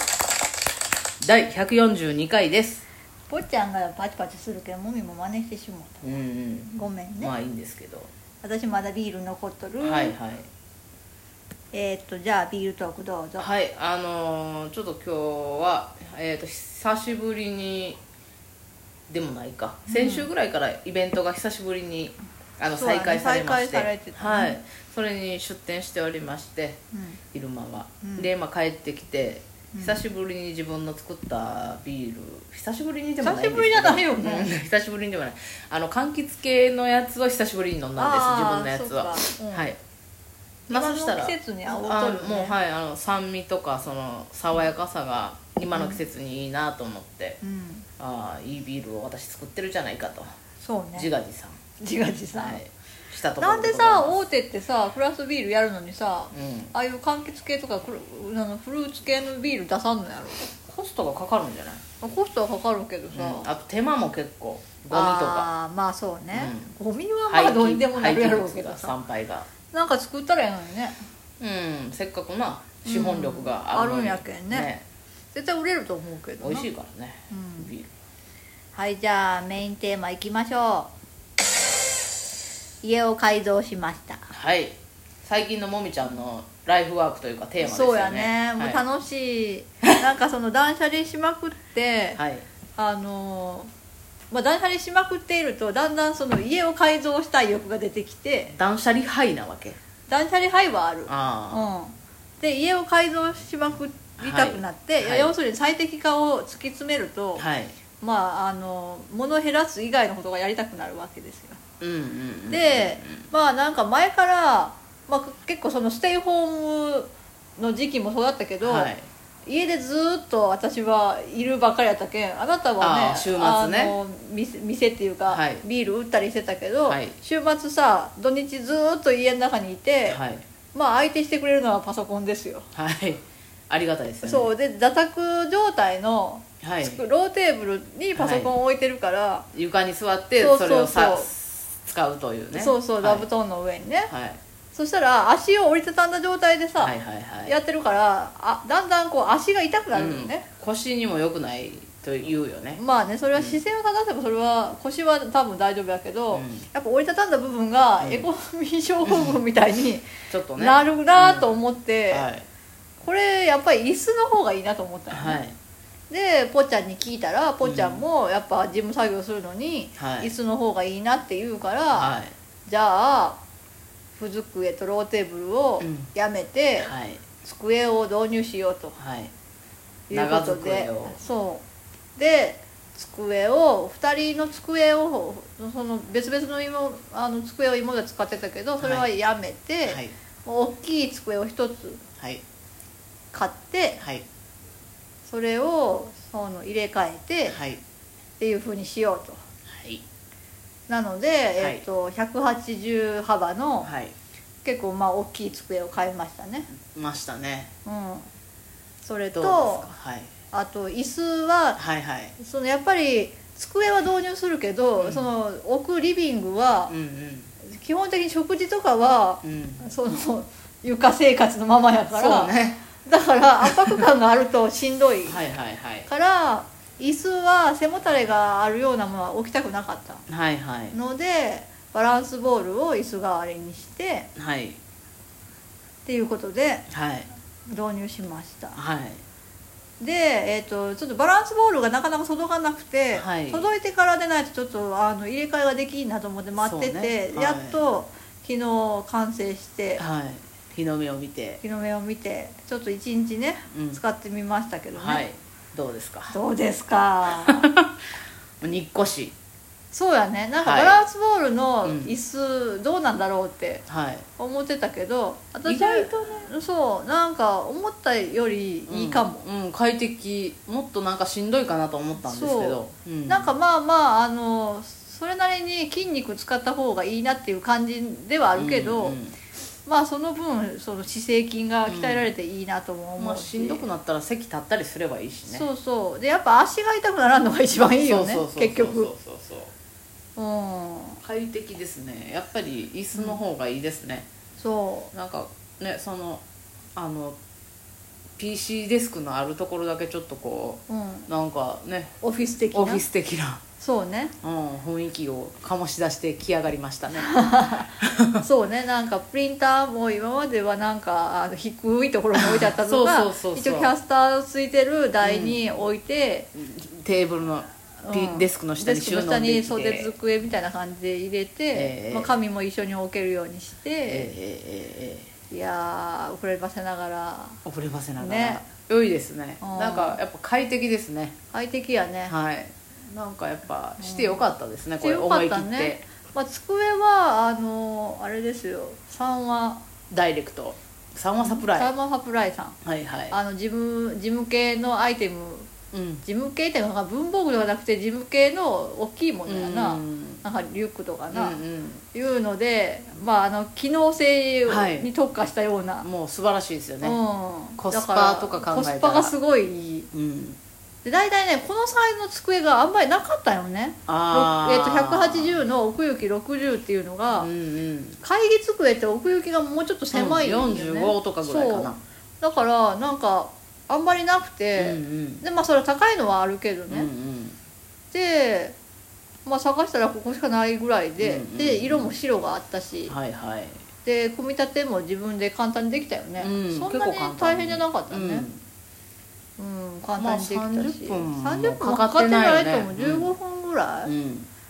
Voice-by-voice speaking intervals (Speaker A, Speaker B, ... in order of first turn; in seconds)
Speaker A: 1.2-2.8, 6.0-8.1, 9.8-10.5, 13.4-18.0, 19.1-26.8, 27.3-39.8, 40.7-47.4, 48.0-50.3, 50.9-51.6, 52.3-54.2, 56.3-56.7, 60.6-61.8, 63.1-65.5, 66.3-66.7, 67.3-69.5, 71.4-74.8, 76.4-77.9, 84.3-88.8, 92.2-92.5, 98.5-99.8, 101.1-101.7, 104.2-105.3, 107.3-107.7, 111.8-113.3, 118.6-119.0, 122.8-123.9, 125.3-125.6, 126.9-127.1, 130.1-130.4, 132.7-134.5, 136.6-137.0, 138.2-138.5, 139.5-143.2, 144.1-144.4, 146.8-147.5, 149.9-152.8, 153.3-153.6, 156.3-156.7, 158.0-158.3, 159.0-159.4, 160.3-161.5, 162.1-162.4, 165.1-165.5, 167.6-168.0, 170.0-170.3, 171.9-172.3, 175.8-176.1, 176.8-177.2, 179.0-179.3, 180.1-181.2, 188.8-189.1, 189.8-190.1, 197.5-197.8, 199.7-200.0, 203.8-204.1, 206.7-207.7, 209.3-210.3, 211.8-212.3, 215.0-215.3, 216.9-217.5, 219.4-219.9, 222.1-222.8, 223.6-224.0, 225.3-226.1, 230.3-230.9, 234.3-234.8, 236.9-237.3, 238.7-239.2, 243.1-243.7, 246.6-247.8, 250.0-251.6, 253.7-254.0, 254.9-256.4, 257.4-257.9, 258.6-259.3, 260.6-261.0, 261.8-262.1, 263.9-264.2, 265.6-266.5, 268.9-273.5, 278.5-279.4, 281.9-282.3, 283.2-285.7, 287.8-289.7, 291.2-294.3, 295.1-296.4, 296.9-297.4, 298.4-302.1, 302.7-303.6, 304.4-307.3, 308.0-308.4, 312.3-313.9, 315.2-315.6, 316.5-320.1, 321.7-322.4, 324.1-325.3, 327.6-331.3, 332.3-336.0, 340.1-341.9, 342.8-343.4, 345.9-346.2, 349.5-350.4, 351.3-352.0, 354.7-355.1, 356.0-357.2, 357.8-359.3, 360.1-360.6, 364.1-365.6, 367.4-368.2, 370.1-372.0, 374.8-375.4, 376.9-377.6, 381.2-382.1, 383.1-383.8, 386.4-388.6, 390.2-393.3, 394.0-394.5
Speaker B: 3.3-6.0, 6.7-7.3, 8.4-10.2, 11.7-13.5, 19.9-20.3, 22.7-24.6, 26.9-27.2, 28.0-28.3, 33.2-34.5, 38.0-39.7, 40.7-42.5, 47.4-47.9, 50.6-51.1, 51.8-52.6, 53.4-60.5, 62.0-63.5, 64.9-69.0, 69.7-71.0, 72.8-74.7, 75.3-76.7, 77.3-77.7, 78.7-80.9, 82.8-84.3, 87.6-92.2, 92.8-93.7, 94.3-98.5, 100.1-107.4, 108.0-111.6, 112.5-118.9, 119.5-130.2, 130.7-132.7, 134.2-139.5, 140.4-141.3, 142.5-144.1, 144.7-146.9, 147.4-150.4, 152.8-160.1, 160.6-162.3, 163.0-165.4, 166.1-173.4, 174.2-178.9, 180.1-181.6, 182.2-192.0, 193.3-194.0, 195.2-197.6, 198.4-199.4, 200.9-203.9, 204.6-206.7, 207.8-208.3, 209.0-209.9, 210.5-211.8, 212.4-216.9, 217.6-225.4, 226.1-230.2, 230.9-234.3, 236.0-236.9, 237.7-238.8, 240.0-250.0, 251.6-255.2, 256.3-257.7, 259.9-263.8, 264.4-269.4, 272.2-279.2, 279.9-283.9, 285.5-289.1, 290.4-291.2, 294.6-295.1, 300.9-301.3, 302.2-303.0, 303.8-304.3, 307.1-316.5, 318.0-324.3, 325.5-327.6, 328.2-328.6, 329.6-330.2, 331.5-332.3, 334.0-334.4, 335.0-339.8, 341.4-342.8, 343.3-345.7, 346.2-351.6, 352.1-356.1, 357.0-360.1, 361.0-367.5, 368.2-377.1, 378.1-378.7, 379.4-383.1, 384.0-388.5, 389.6-394.1